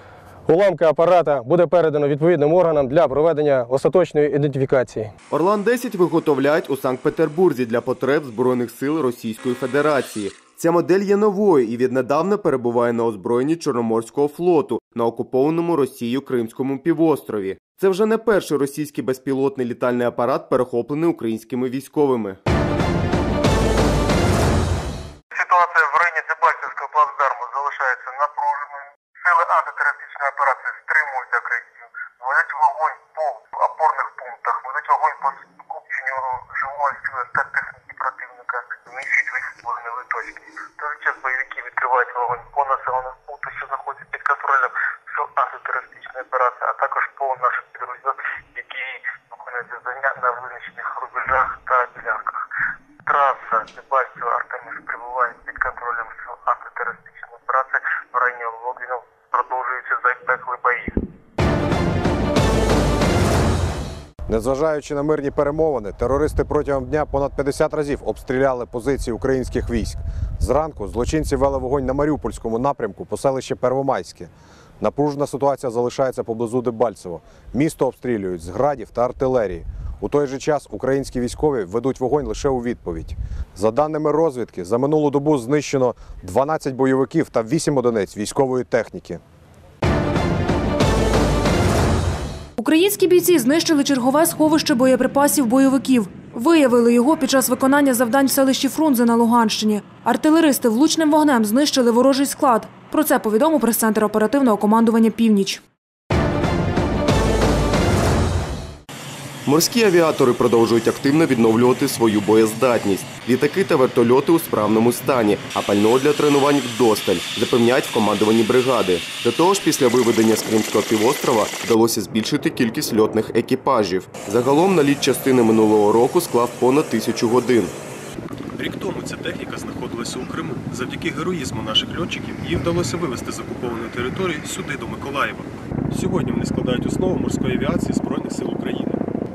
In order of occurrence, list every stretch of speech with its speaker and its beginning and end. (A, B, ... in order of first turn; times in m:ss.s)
0:00.5-0:05.1 A
0:05.3-0:22.4 B
0:25.3-0:52.4 C
0:53.0-1:01.0 C
1:04.3-1:29.2 D
1:32.6-1:45.6 E
1:49.4-2:07.7 B
2:08.5-2:19.0 F